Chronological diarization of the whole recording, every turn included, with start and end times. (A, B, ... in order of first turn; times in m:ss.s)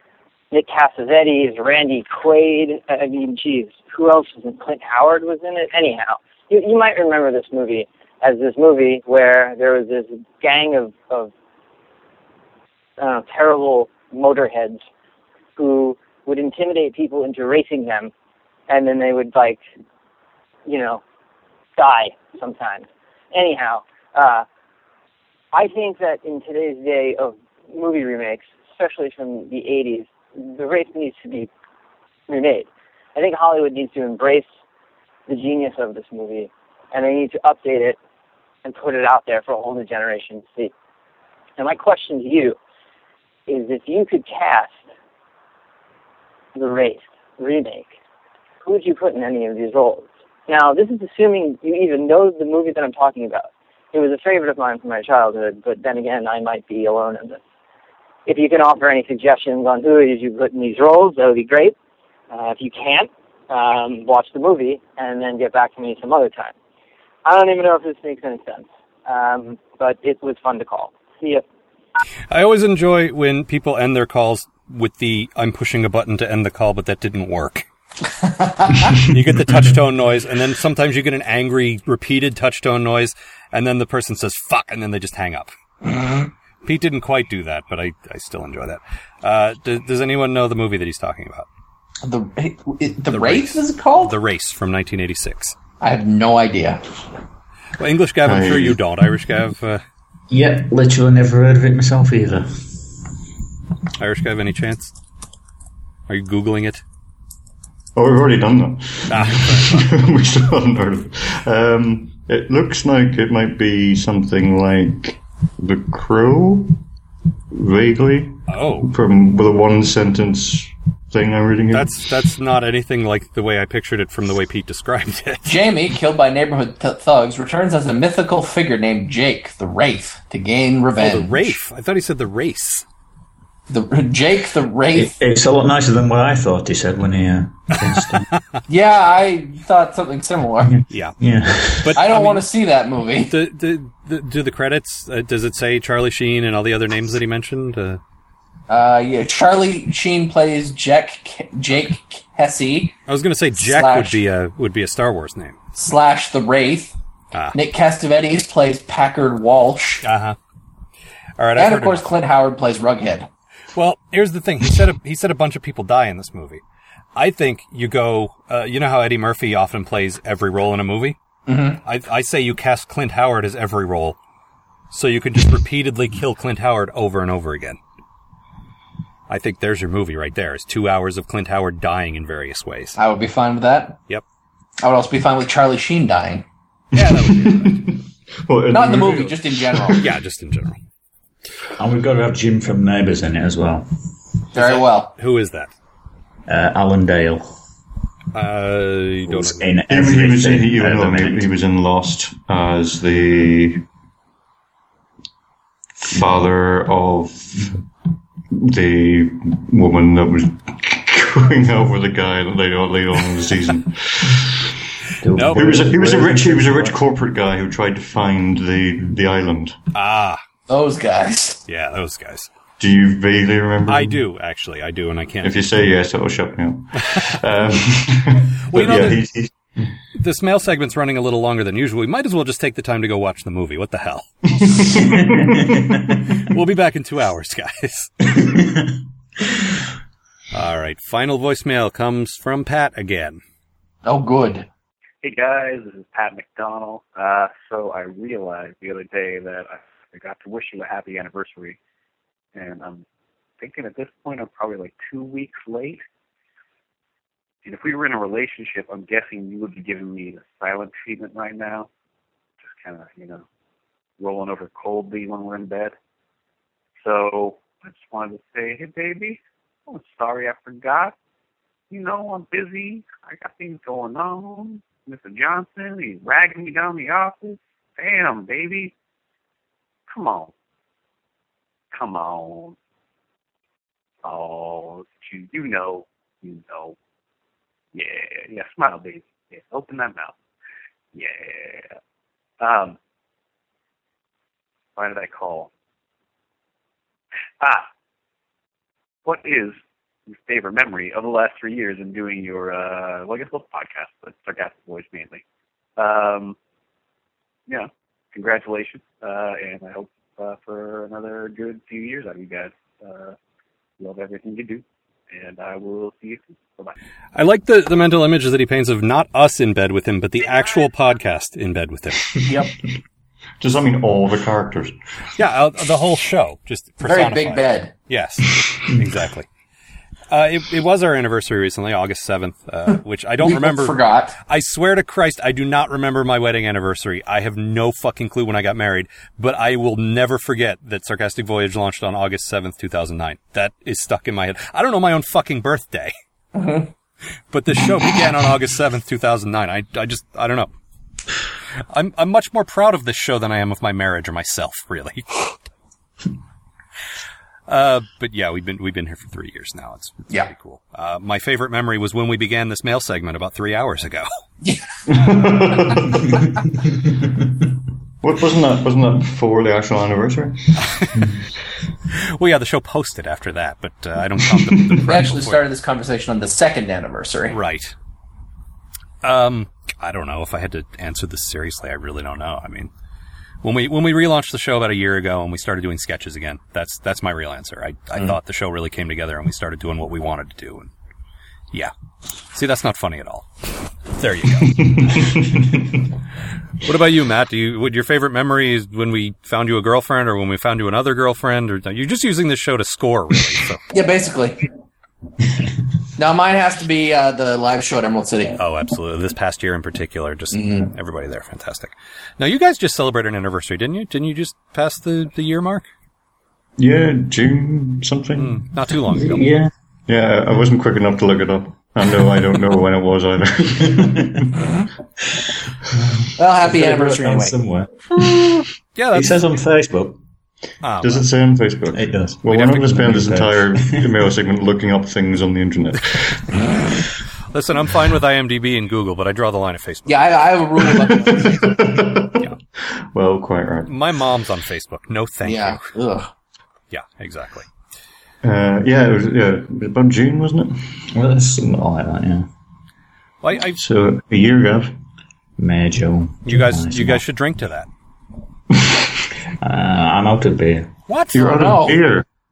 0:00.5-0:11.3 A
0:13.0-0:14.8 A
0:15.6-0:18.1 A
0:18.7-0:19.6 A
0:20.7-0:21.0 A
0:21.8-0:24.5 A
0:25.5-0:31.5 A
0:32.3-0:34.5 A
0:35.3-0:38.0 A
0:38.6-0:40.7 A
0:41.6-0:42.6 A
0:43.5-0:44.8 A
0:46.6-0:47.9 A
0:48.6-0:57.4 A
0:58.3-1:01.8 A
1:02.3-1:06.5 A
1:07.2-1:11.4 A
1:12.3-1:17.6 B
1:18.4-1:18.9 C
1:19.0-1:25.5 B
1:25.9-1:26.2 C
1:26.6-1:31.5 B
1:32.0-1:34.1 C
1:33.1-1:35.6 B
1:35.8-1:36.8 C
1:37.8-1:39.8 B
1:38.2-1:38.8 D
1:40.3-1:42.7 E
1:44.0-1:44.9 B
1:46.1-1:46.8 B
1:48.0-1:56.8 D
1:49.1-1:49.9 B
1:57.5-2:01.9 D
1:58.5-1:58.9 B
2:01.7-2:05.5 B
2:05.4-2:11.6 C
2:11.0-2:12.8 B
2:13.7-2:15.2 C
2:14.9-2:18.3 E
2:18.7-2:20.8 C
2:20.7-2:22.0 E
2:20.9-2:21.2 B
2:21.8-2:22.5 B
2:22.0-2:23.3 C
2:23.3-2:28.0 B
2:28.7-2:33.0 C
2:33.1-2:35.6 B
2:33.6-2:34.2 C
2:35.8-2:37.0 C
2:37.5-2:40.0 C
2:40.0-2:40.4 B
2:41.4-2:42.0 B
2:41.6-2:43.3 C
2:43.8-2:46.6 B
2:47.2-2:51.2 B
2:51.5-2:51.8 C
2:51.8-2:54.2 B
2:54.9-2:57.8 B
2:59.3-3:03.0 B
3:03.0-3:04.0 C
3:04.8-3:06.4 C
3:06.9-3:07.8 B
3:06.9-3:10.1 D
3:08.7-3:10.0 C
3:10.0-3:10.8 B
3:11.8-3:13.9 E
3:14.5-3:15.1 C
3:14.6-3:15.7 B
3:16.5-3:17.5 E
3:18.3-3:19.7 B
3:19.3-3:21.5 E
3:19.9-3:23.8 D
3:26.0-3:27.8 D
3:28.5-3:34.8 D
3:35.2-3:37.0 E
3:35.3-3:35.9 B
3:35.5-3:39.8 D
3:39.9-3:40.4 B
3:40.7-3:41.6 C
3:41.7-3:42.5 B
3:42.8-3:44.2 D
3:43.9-3:45.6 B
3:45.4-3:49.6 D
3:48.7-3:49.3 B
3:50.2-3:54.3 B
3:54.5-3:56.1 D
3:55.2-3:56.2 E
3:56.4-3:58.3 B
4:00.5-4:03.4 B
4:04.0-4:04.7 C
4:05.2-4:11.8 F
4:12.6-4:13.0 F
4:13.6-4:16.0 F
4:17.6-4:21.9 F
4:22.6-4:23.4 F
4:24.2-4:26.0 F
4:27.0-4:31.2 F
4:31.9-4:38.9 F
4:40.1-4:40.5 F
4:41.9-4:42.8 F
4:44.2-4:47.0 F
4:47.9-4:50.4 F
4:51.1-4:51.9 F
4:52.6-4:53.0 F
4:55.0-4:55.7 F
4:57.6-4:57.9 F
4:59.2-5:05.4 F
5:06.0-5:06.6 F
5:07.7-5:13.4 F
5:14.0-5:17.0 F
5:17.4-5:22.3 B
5:22.5-5:22.7 C
5:23.6-5:24.9 D
5:25.4-5:29.5 B
5:27.0-5:27.9 C
5:30.3-5:46.1 B
5:33.4-5:34.4 C
5:46.6-5:46.9 C
5:47.5-5:50.7 B
5:51.9-5:55.6 B
5:57.7-6:04.3 B
6:05.1-6:06.5 D
6:08.2-6:10.6 D
6:10.8-6:11.2 B
6:12.1-6:15.6 B
6:14.6-6:15.0 D
6:15.0-6:17.6 C
6:17.5-6:18.0 B
6:19.2-6:22.9 B
6:23.6-6:30.9 B
6:32.5-6:35.4 B
6:36.8-6:43.8 B
6:43.9-6:44.6 C
6:46.2-6:48.6 C
6:48.6-6:55.9 B
6:50.5-6:50.9 C
6:56.8-6:58.7 D
6:58.4-6:59.5 B
6:59.1-6:59.7 E
7:00.1-7:04.5 D
7:03.9-7:04.4 E
7:06.4-7:07.6 C
7:06.6-7:10.2 E
7:09.0-7:09.5 B
7:10.8-7:11.3 B
7:11.0-7:16.6 D
7:11.9-7:14.2 E
7:12.5-7:12.9 B
7:17.5-7:20.6 B
7:20.1-7:21.8 C
7:20.8-7:23.9 D
7:23.9-7:25.9 B
7:25.4-7:26.3 C
7:26.9-7:27.7 B
7:28.4-7:30.8 D
7:31.1-7:32.5 E
7:33.4-7:33.8 B
7:33.8-7:34.9 D
7:35.6-7:37.2 E
7:36.4-7:37.9 B
7:39.6-7:40.9 E
7:41.1-7:41.8 B
7:41.3-7:42.2 D
7:41.4-7:42.0 C